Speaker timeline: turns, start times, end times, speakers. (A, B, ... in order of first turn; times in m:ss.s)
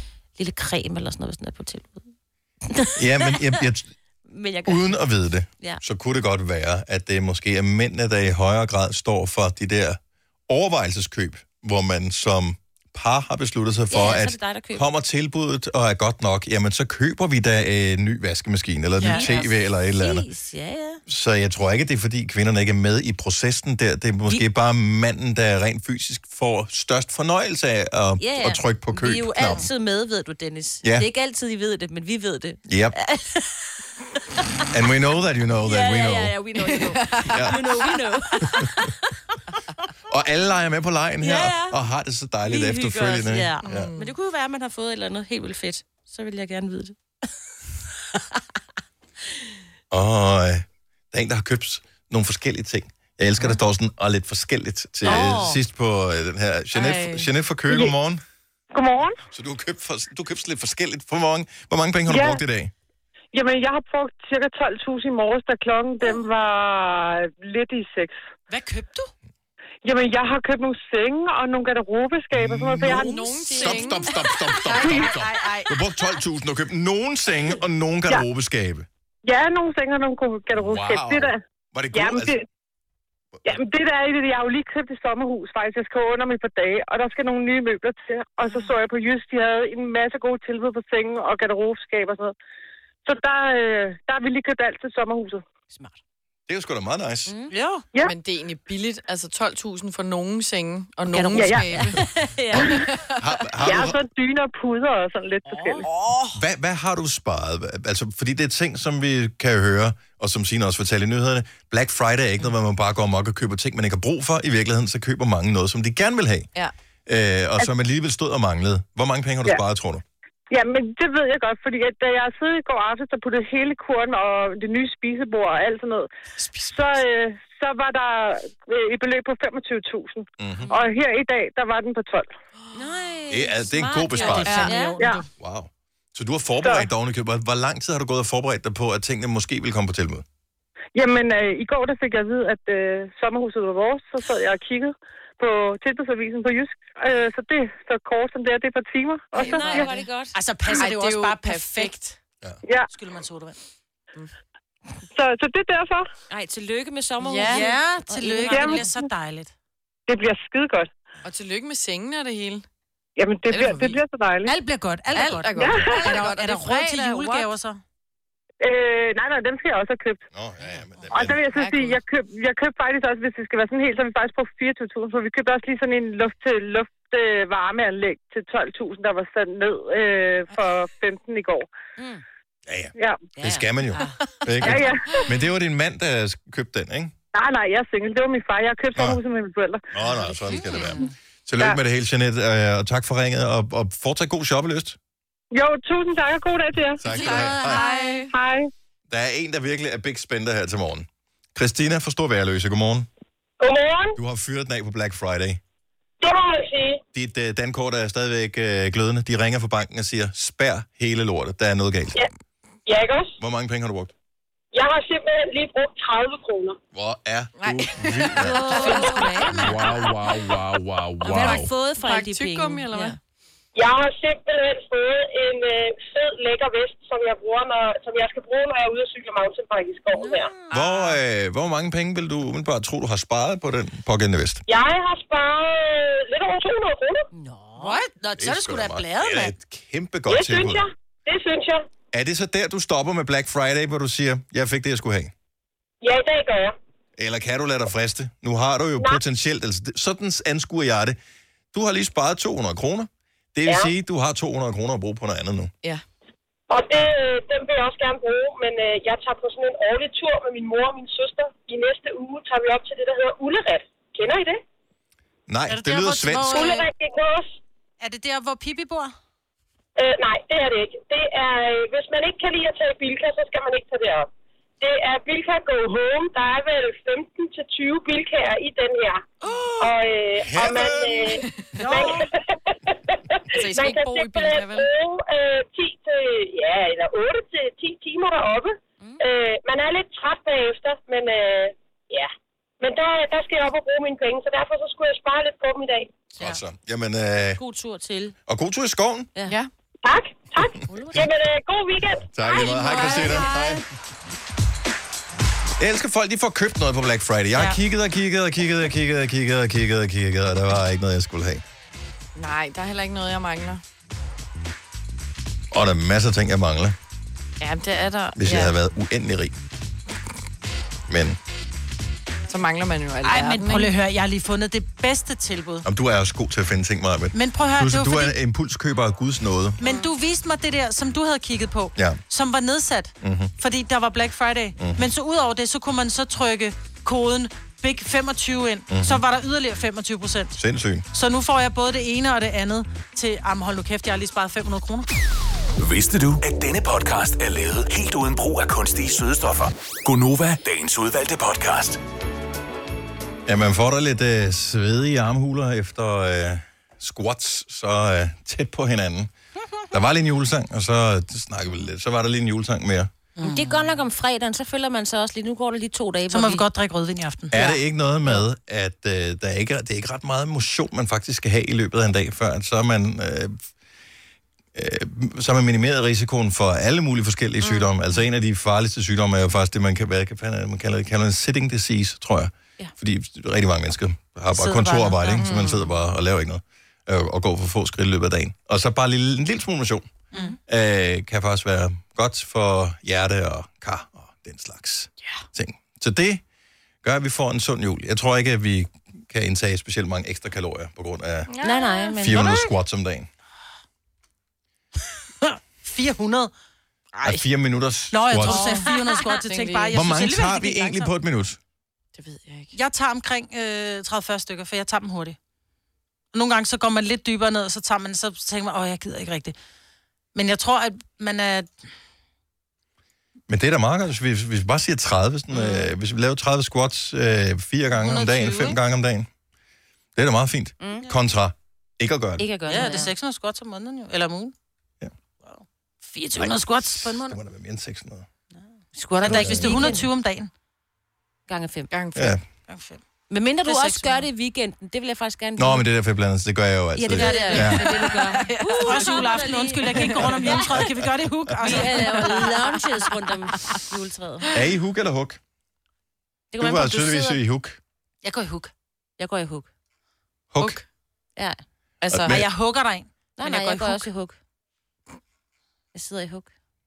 0:00.4-0:02.1 A
0:02.7-0:03.6 A
0:03.0-0:03.9 B
0:04.2-0:05.0 A
0:04.6-0:20.3 B
0:13.9-0:14.9 A
0:19.0-0:21.0 A
0:19.0-0:19.3 C
0:21.1-0:29.7 B
0:28.2-0:33.6 A
0:30.8-0:31.1 B
0:32.6-0:32.9 B
0:34.7-0:36.3 B
0:35.6-0:39.3 A
0:36.6-0:37.9 D
0:37.3-0:37.6 B
0:40.1-0:43.9 B
0:41.2-0:41.8 A
0:42.4-0:47.0 A
0:43.6-0:44.1 D
0:49.9-0:58.2 B
0:55.0-0:55.6 A
0:55.1-0:55.3 D
0:56.7-0:57.3 D
0:58.8-0:59.1 E
0:59.3-1:02.7 B
1:02.1-1:02.4 E
1:03.3-1:08.2 E
1:08.5-1:09.1 C
1:09.8-1:13.1 E
1:12.3-1:18.9 B
1:12.8-1:14.1 D
1:12.9-1:14.9 A
1:14.7-1:15.6 C
1:19.3-1:21.4 E
1:20.5-1:22.4 B
1:21.9-1:22.4 E
1:23.5-1:32.3 E
1:33.0-1:35.4 E
1:35.7-1:36.0 A
1:36.5-1:37.3 B
1:37.2-1:37.5 A
1:37.5-1:37.8 C
1:38.0-1:42.0 D
1:41.1-1:42.9 A
1:42.5-1:43.1 D
1:43.2-1:44.0 B
1:43.7-1:45.5 E
1:45.5-1:45.9 A
1:45.8-1:46.1 D
1:46.3-1:56.5 B
1:57.0-2:00.0 B
2:00.5-2:06.1 E
2:06.7-2:12.3 E
2:10.4-2:10.7 B
2:12.7-2:15.0 A
2:13.3-2:14.7 B
2:14.2-2:15.3 C
2:14.5-2:14.7 D
2:15.4-2:20.2 B
2:20.9-2:29.6 E
2:29.3-2:30.3 A
2:29.4-2:29.9 D
2:29.6-2:31.9 C
2:30.8-2:32.2 D
2:32.9-2:33.6 C
2:35.2-2:36.0 E
2:36.3-2:38.8 A
2:37.2-2:37.7 D
2:37.5-2:39.5 C
2:40.1-2:40.8 E
2:41.2-2:42.6 D
2:43.2-2:44.5 E
2:43.4-2:44.0 D
2:44.4-2:47.8 C
2:45.1-2:47.5 D
2:48.7-2:50.2 E
2:50.3-2:51.4 B
2:51.1-3:01.6 E
2:51.5-2:52.0 D
3:02.0-3:02.2 A
3:02.7-3:07.1 B
3:03.3-3:04.8 A
3:07.4-3:09.8 E
3:08.9-3:09.2 B
3:09.9-3:15.0 B
3:10.2-3:11.1 A
3:15.5-3:17.0 E
3:17.0-3:17.8 B
3:17.1-3:18.3 D
3:18.3-3:18.6 E
3:19.1-3:23.1 B
3:23.6-3:24.2 F
3:24.2-3:25.6 B
3:26.2-3:27.0 F
3:27.1-3:32.2 B
3:32.8-3:33.3 F
3:33.4-3:34.1 B
3:34.7-3:36.8 F
3:36.9-3:38.8 B
3:37.6-3:39.8 D
3:38.3-3:40.3 A
3:38.8-3:39.1 C
3:39.5-3:41.6 B
3:41.2-3:43.2 A
3:41.2-3:43.2 D
3:43.8-3:50.5 F
3:50.1-3:50.8 A
3:50.7-3:54.6 B
3:50.7-3:51.1 D
3:54.7-3:57.2 F
3:57.3-3:58.0 A
3:57.8-3:59.5 C
3:58.4-4:00.8 B
4:00.3-4:01.8 F
4:02.1-4:05.3 B
4:06.0-4:06.8 F
4:07.2-4:11.2 B
4:11.7-4:15.7 B
4:16.7-4:24.6 F
4:25.5-4:26.8 B
4:25.7-4:26.9 C
4:26.4-4:27.6 F
4:28.0-4:29.1 C
4:30.0-4:34.3 F
4:34.8-4:39.3 F
4:39.4-4:39.9 C
4:39.8-4:56.2 F
4:40.4-4:41.4 B
4:41.4-4:41.7 D
4:41.8-4:42.3 C
4:43.5-4:44.9 D
4:56.4-4:57.6 B
4:57.5-4:58.4 A
4:58.5-4:59.3 B
5:00.0-5:02.7 F
5:00.9-5:01.3 A
5:02.3-5:03.8 B
5:02.6-5:03.5 A
5:02.8-5:03.8 D
5:02.9-5:03.4 C
5:05.8-5:11.6 B
5:12.4-5:13.8 D
5:15.7-5:17.0 B
5:17.6-5:18.7 D
5:18.4-5:19.5 B
5:21.1-5:21.4 B
5:22.5-5:23.9 D
5:23.2-5:25.8 C
5:25.8-5:29.8 B
5:27.3-5:28.3 C
5:29.8-5:40.6 C
5:33.2-5:33.5 B
5:34.8-5:35.1 B
5:38.9-5:39.2 B
5:40.6-5:41.0 B
5:41.1-5:45.1 C
5:45.8-5:52.0 G
5:53.4-5:59.3 B
5:59.9-6:03.1 B
6:03.4-6:03.8 C
6:03.4-6:06.6 A
6:06.3-6:07.6 C
6:07.5-6:13.6 B
6:14.7-6:30.1 B
6:17.6-6:17.9 A
6:24.5-6:25.5 C
6:24.6-6:25.8 A
6:25.4-6:25.8 D
6:30.7-6:36.4 B
6:37.0-6:41.5 B
6:41.5-6:42.2 D
6:41.6-6:42.7 A
6:42.2-6:43.3 B
6:45.5-6:46.5 C
6:47.1-6:47.4 D
6:47.2-6:48.8 B
6:48.1-6:51.1 C
6:48.5-6:49.2 A
6:49.3-6:50.0 D
6:49.9-6:51.6 B
6:52.2-6:52.7 D
6:52.7-6:55.4 C
6:56.3-6:59.5 C
7:00.3-7:01.7 C
7:03.5-7:09.3 B
7:05.5-7:05.9 A
7:07.9-7:08.8 C
7:10.2-7:12.5 B
7:10.8-7:11.1 A
7:12.4-7:13.1 A
7:12.7-7:14.5 C
7:15.4-7:17.4 C
7:16.4-7:18.3 B
7:18.9-7:20.1 A
7:19.1-7:20.5 C
7:19.2-7:19.9 B
7:21.5-7:21.9 A
7:21.9-7:22.3 D
7:22.1-7:22.4 B
7:22.7-7:23.0 C
7:23.3-7:25.8 A
7:23.6-7:24.3 C
7:25.6-7:28.0 B
7:27.0-7:30.8 A
7:27.2-7:32.5 C
7:29.9-7:30.5 D
7:31.6-7:34.6 A
7:34.5-7:35.4 B
7:36.5-7:37.4 A
7:36.6-7:37.8 B
7:38.2-7:38.7 C
7:39.2-7:39.7 A
7:40.5-7:40.8 B
7:40.6-7:40.8 D
7:42.0-7:42.3 D
7:42.1-7:42.5 B
7:42.3-7:44.1 C
7:43.4-7:44.4 A
7:45.9-7:46.5 A